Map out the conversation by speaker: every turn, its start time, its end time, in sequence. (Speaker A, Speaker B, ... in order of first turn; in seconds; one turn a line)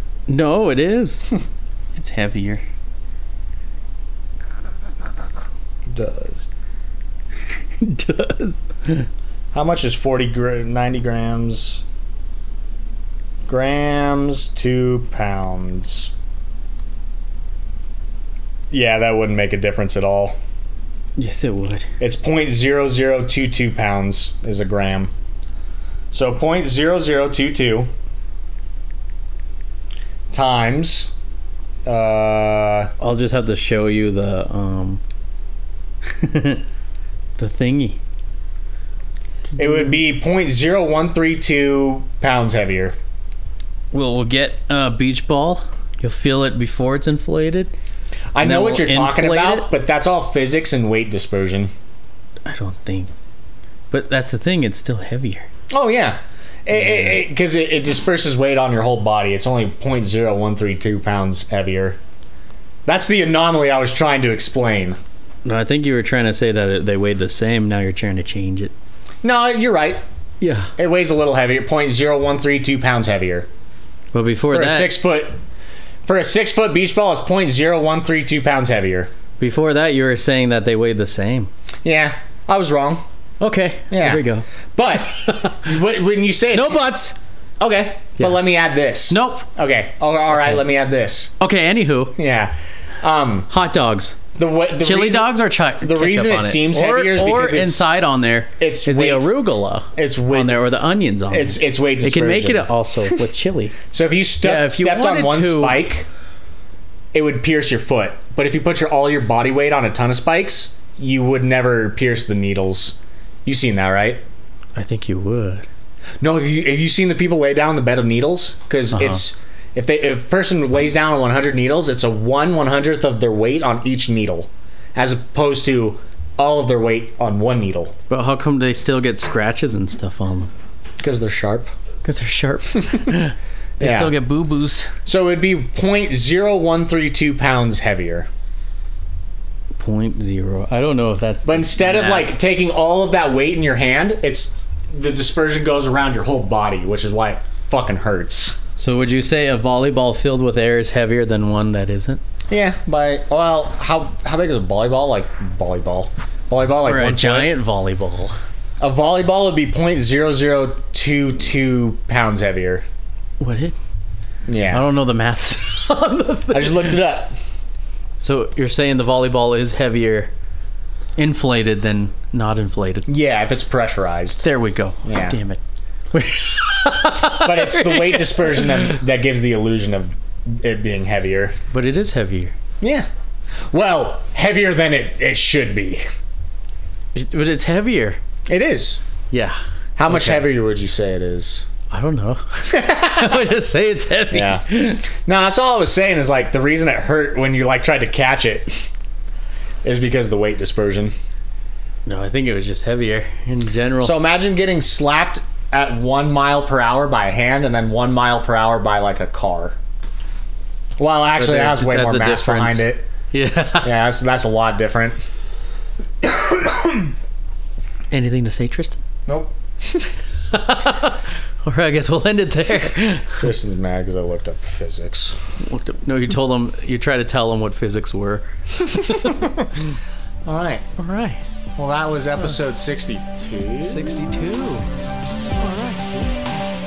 Speaker A: 0.3-1.3
Speaker A: 1.9-2.6
Speaker B: 5.9-6.5
Speaker A: 7.8-9.1
Speaker B: 9.5-11.8
Speaker B: 13.5-16.1
Speaker B: 18.7-20.4
Speaker A: 21.2-21.9
Speaker B: 22.0-25.1
Speaker B: 26.1-27.9
Speaker B: 30.3-31.1
Speaker B: 31.9-32.9
Speaker A: 33.0-35.0
Speaker A: 36.2-36.6
Speaker A: 37.4-38.0
Speaker B: 39.6-43.0
Speaker A: 43.9-47.7
Speaker B: 48.3-51.7
Speaker A: 48.4-49.7
Speaker A: 52.5-53.1
Speaker A: 53.9-55.5
Speaker B: 55.7-62.0
Speaker A: 56.9-57.1
Speaker B: 62.9-65.0
Speaker A: 65.5-68.7
Speaker B: 69.2-70.0
Speaker A: 70.4-70.7
Speaker B: 70.8-73.5
Speaker A: 74.1-75.0
Speaker B: 74.5-75.4
Speaker B: 76.1-79.1
Speaker A: 79.4-81.5
Speaker B: 81.8-83.0
Speaker A: 83.4-84.5
Speaker B: 83.9-84.2
Speaker B: 84.8-87.0
Speaker A: 85.2-85.5
Speaker A: 86.5-87.2
Speaker B: 87.6-91.3
Speaker A: 89.1-89.5
Speaker A: 91.4-92.2
Speaker B: 92.2-93.5
Speaker A: 93.5-94.2
Speaker B: 94.3-97.9
Speaker A: 94.8-103.8
Speaker B: 98.6-99.2
Speaker B: 100.0-100.7
Speaker B: 101.3-102.7
Speaker B: 103.9-106.1
Speaker A: 104.4-105.8
Speaker B: 107.1-114.2
Speaker A: 114.8-115.7
Speaker B: 116.2-127.9
Speaker A: 118.9-119.2
Speaker A: 128.1-130.5
Speaker B: 131.0-131.7
Speaker A: 132.0-134.9
Speaker B: 133.8-134.1
Speaker B: 135.1-138.3
Speaker A: 139.8-142.3
Speaker B: 141.4-148.6
Speaker A: 148.8-152.2
Speaker B: 152.5-157.5
Speaker A: 156.8-158.4
Speaker B: 158.8-162.8
Speaker A: 163.4-163.8
Speaker B: 164.5-164.9
Speaker A: 164.7-167.0
Speaker B: 166.5-167.3
Speaker A: 168.2-170.3
Speaker A: 171.2-173.1
Speaker B: 173.1-174.4
Speaker A: 174.4-175.6
Speaker B: 175.1-175.4
Speaker A: 176.1-179.0
Speaker B: 177.2-181.6
Speaker A: 181.7-182.5
Speaker B: 182.8-183.1
Speaker B: 183.7-186.0
Speaker A: 187.1-188.2
Speaker B: 188.5-189.0
Speaker A: 189.3-190.4
Speaker B: 190.0-191.7
Speaker A: 191.9-195.1
Speaker B: 192.7-193.5
Speaker B: 194.3-198.9
Speaker B: 199.8-201.2
Speaker A: 202.1-204.1
Speaker B: 204.0-209.8
Speaker B: 211.0-213.1
Speaker A: 211.4-213.9
Speaker B: 213.8-215.2
Speaker A: 218.1-219.0
Speaker A: 220.5-223.4
Speaker B: 223.4-225.3
Speaker A: 225.6-229.5
Speaker B: 229.1-229.7
Speaker B: 230.4-230.9
Speaker A: 231.0-231.4
Speaker B: 231.8-234.1
Speaker A: 233.8-234.9
Speaker B: 235.6-236.2
Speaker A: 235.6-236.7